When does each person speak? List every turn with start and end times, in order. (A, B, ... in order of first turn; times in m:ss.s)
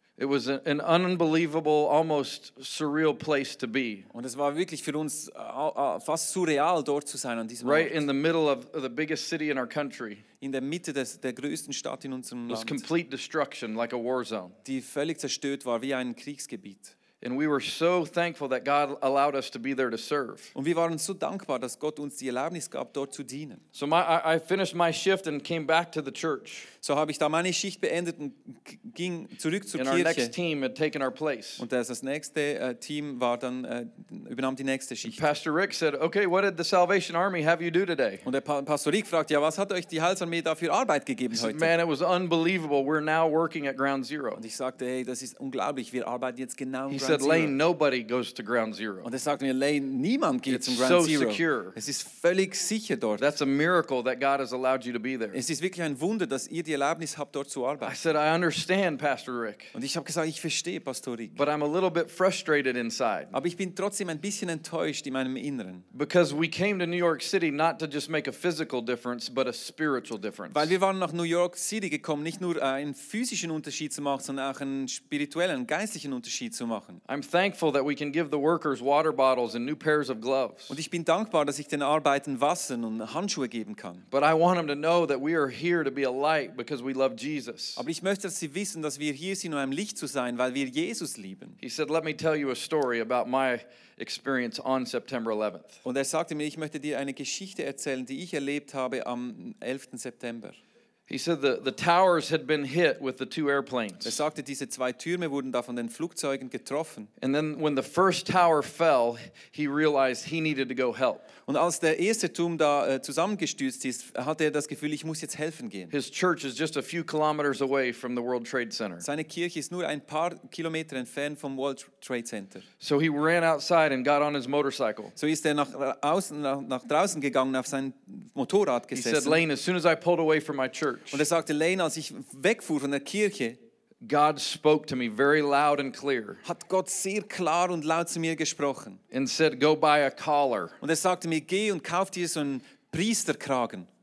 0:00.2-0:04.1 A
0:04.1-0:08.1 B
0:07.6-0:10.2 A
0:10.4-0:12.8 B
0:12.5-0:14.6 A
0:14.6-0:16.9 B
0:17.2-0:20.5 A
0:20.6-0:23.6 B
0:23.7-0:26.7 A
0:26.8-0:30.3 B
0:29.8-0:31.6 A
0:31.6-0:35.3 B
0:35.1-0:38.2 A
0:38.2-0:41.7 B
0:41.3-0:44.4 A
0:44.4-0:47.6 B
0:46.9-0:49.1 A
0:49.0-0:53.3 B
0:50.5-0:51.8 A
0:53.2-0:55.4 A
0:55.3-0:58.0 B
0:57.8-0:59.7 A
0:59.7-1:01.4 B
1:01.4-1:03.3 A
1:03.3-1:05.9 B
1:05.9-1:10.7 A
1:10.5-1:17.0 B
1:17.1-1:20.8 A
1:20.7-1:24.0 B
1:24.1-1:27.8 A
1:27.8-1:31.6 B
1:31.6-1:35.8 A
1:35.8-1:40.6 B
1:41.1-1:44.2 A
1:44.0-1:47.1 B
1:47.2-1:51.3 A
1:51.5-1:55.9 B
1:55.9-1:59.1 A
1:59.0-2:02.7 B
2:02.8-2:05.1 A
2:05.2-2:09.4 B
2:08.9-2:11.2 A
2:11.1-2:13.6 B
2:14.0-2:16.4 A
2:16.4-2:19.0 B
2:19.1-2:20.8 A
2:20.8-2:23.9 B